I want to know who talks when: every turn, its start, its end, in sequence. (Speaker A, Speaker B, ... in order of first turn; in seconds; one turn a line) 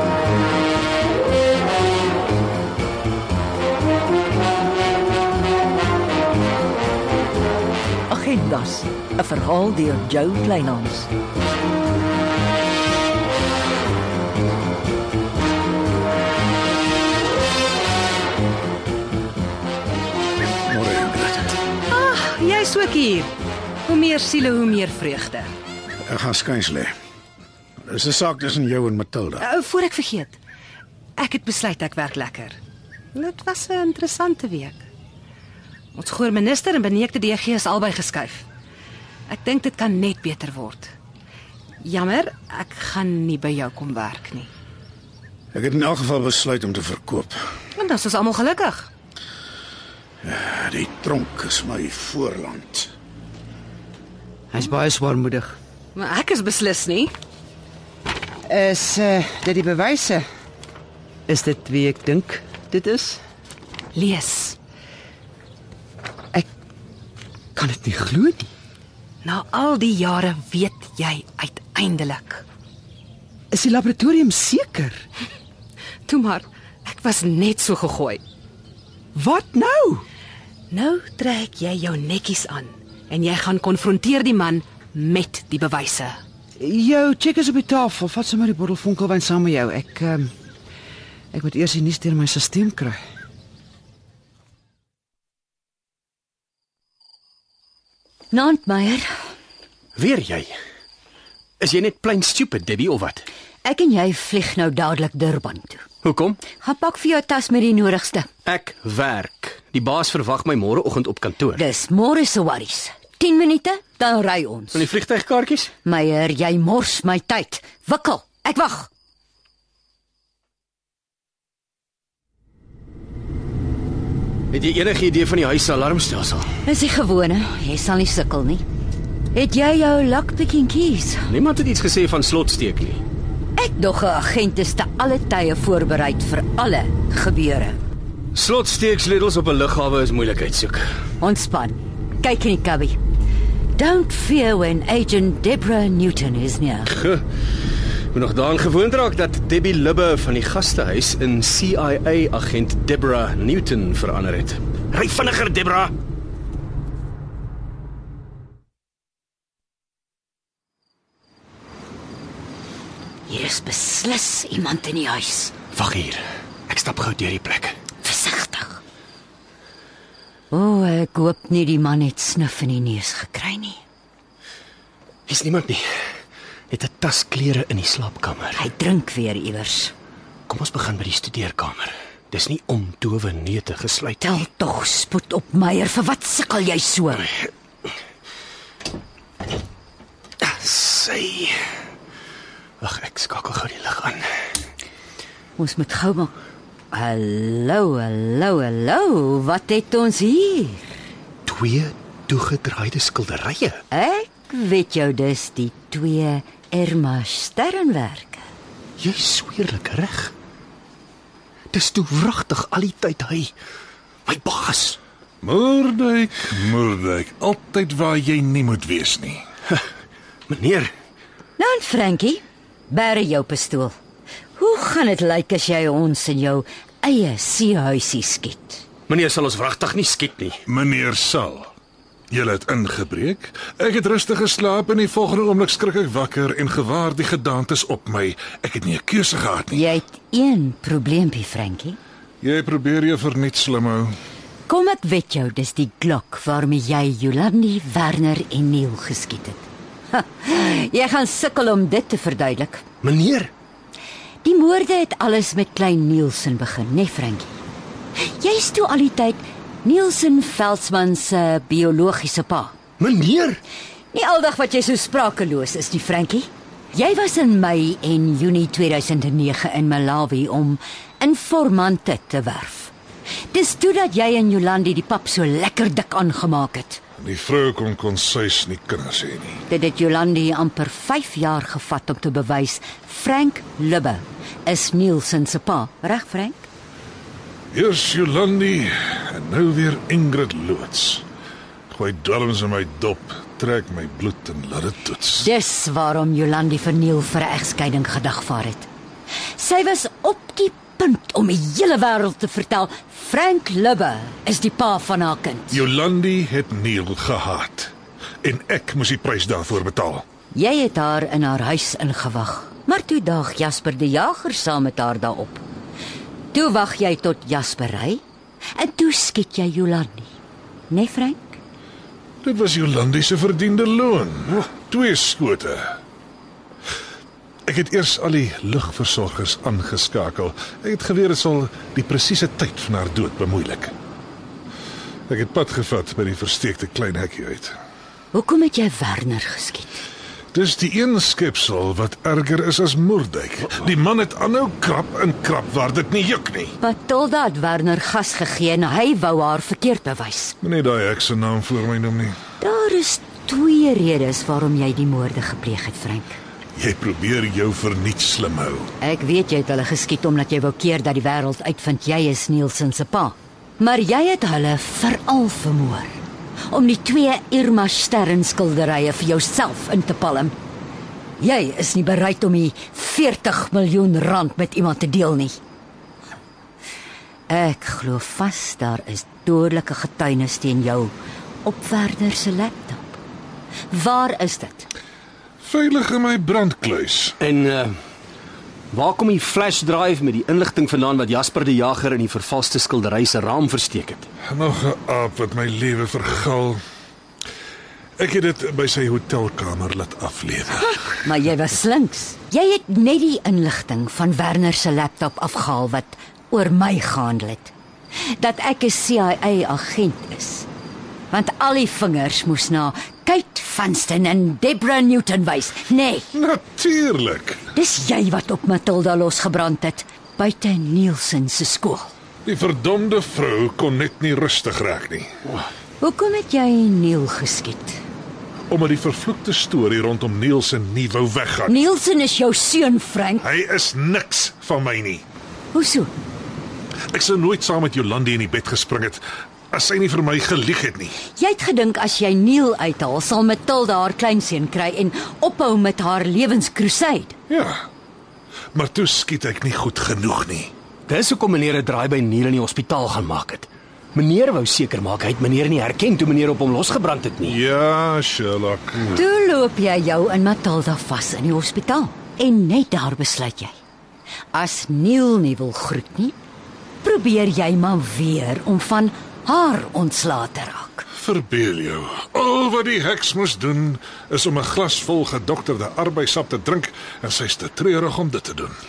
Speaker A: 8.1-11.1
Speaker B: 9.3-10.7
Speaker C: 20.7-21.6
Speaker D: 21.9-23.3
Speaker D: 23.9-25.5
Speaker C: 26.0-26.9
Speaker C: 27.8-29.5
Speaker D: 29.4-30.4
Speaker D: 31.2-32.6
Speaker D: 33.1-34.9
Speaker D: 36.0-38.4
Speaker D: 39.3-40.9
Speaker D: 41.8-44.5
Speaker C: 45.5-47.4
Speaker D: 47.8-48.9
Speaker C: 50.2-52.9
Speaker E: 54.5-55.6
Speaker D: 56.0-57.1
Speaker E: 58.5-60.2
Speaker E: 61.3-63.2
Speaker D: 64.0-64.6
Speaker E: 67.5-68.5
Speaker D: 69.2-72.4
Speaker E: 73.5-75.0
Speaker D: 76.1-78.2
Speaker E: 79.2-80.0
Speaker D: 80.7-86.2
Speaker E: 86.6-90.3
Speaker E: 91.3-93.0
Speaker B: 98.3-99.1
Speaker F: 100.0-100.5
Speaker F: 101.6-103.3
Speaker B: 103.6-105.9
Speaker F: 106.0-106.4
Speaker B: 106.6-108.3
Speaker F: 108.5-111.6
Speaker B: 111.6-114.8
Speaker F: 114.7-115.7
Speaker B: 115.8-118.9
Speaker F: 124.5-126.5
Speaker B: 126.7-128.6
Speaker B: 129.3-131.3
Speaker F: 131.3-133.0
Speaker B: 133.6-137.8
Speaker F: 138.3-140.8
Speaker B: 141.2-143.0
Speaker B: 143.8-147.0
Speaker F: 148.1-155.9
Speaker B: 163.3-165.5
Speaker F: 165.7-167.8
Speaker B: 168.0-168.8
Speaker B: 170.5-173.8
Speaker F: 175.3-175.8
Speaker F: 176.7-178.6
Speaker B: 178.6-179.9
Speaker F: 180.5-184.4
Speaker B: 184.2-187.3
Speaker F: 190.4-191.6
Speaker F: 192.8-194.2
Speaker B: 195.6-196.3
Speaker B: 196.9-200.9
Speaker F: 201.5-203.8
Speaker B: 203.9-208.5
Speaker F: 209.0-210.3
Speaker F: 211.7-213.5
Speaker F: 214.3-215.0
Speaker G: 215.4-219.4
Speaker F: 220.5-220.9
Speaker B: 221.6-223.9
Speaker B: 224.6-228.8
Speaker F: 229.1-230.6
Speaker G: 230.7-231.7
Speaker G: 232.3-239.8
Speaker B: 239.7-242.0
Speaker G: 242.4-244.2
Speaker B: 244.7-252.8
Speaker F: 253.0-253.5
Speaker B: 254.4-257.5
Speaker B: 258.3-262.8
Speaker F: 263.0-263.6
Speaker B: 264.1-272.9
Speaker B: 273.5-277.0
Speaker G: 277.2-279.6
Speaker B: 279.7-286.7
Speaker G: 287.7-291.2
Speaker G: 291.9-295.5
Speaker B: 295.4-298.9
Speaker B: 299.6-305.8
Speaker G: 305.7-307.9
Speaker G: 308.4-310.2
Speaker B: 310.5-315.6
Speaker B: 316.5-318.2
Speaker B: 318.8-320.3
Speaker B: 320.9-321.6
Speaker G: 322.4-326.0
Speaker G: 327.7-333.9
Speaker G: 335.3-337.7
Speaker B: 338.3-339.9
Speaker G: 340.5-346.8
Speaker B: 346.8-350.6
Speaker G: 350.6-352.4
Speaker B: 352.6-356.4
Speaker G: 356.8-358.9
Speaker B: 359.0-370.5
Speaker B: 371.4-375.6
Speaker B: 377.5-383.2
Speaker B: 383.9-384.9
Speaker G: 385.6-387.4
Speaker F: 387.4-387.9
Speaker F: 388.9-394.3
Speaker G: 394.5-396.8
Speaker G: 398.2-401.0
Speaker B: 401.2-407.7
Speaker B: 408.3-410.7
Speaker B: 411.3-416.3
Speaker G: 416.3-417.6
Speaker B: 417.8-422.1
Speaker G: 422.4-425.3
Speaker B: 426.0-428.0
Speaker G: 428.7-431.8
Speaker B: 431.7-433.5
Speaker G: 433.4-435.2
Speaker B: 435.7-436.1
Speaker G: 437.1-441.2
Speaker B: 441.3-447.4
Speaker G: 447.5-447.9
Speaker G: 448.7-450.7
Speaker F: 451.1-457.6
Speaker G: 457.4-459.2
Speaker B: 459.1-463.8
Speaker B: 464.5-466.4
Speaker B: 467.0-471.1
Speaker G: 471.1-478.8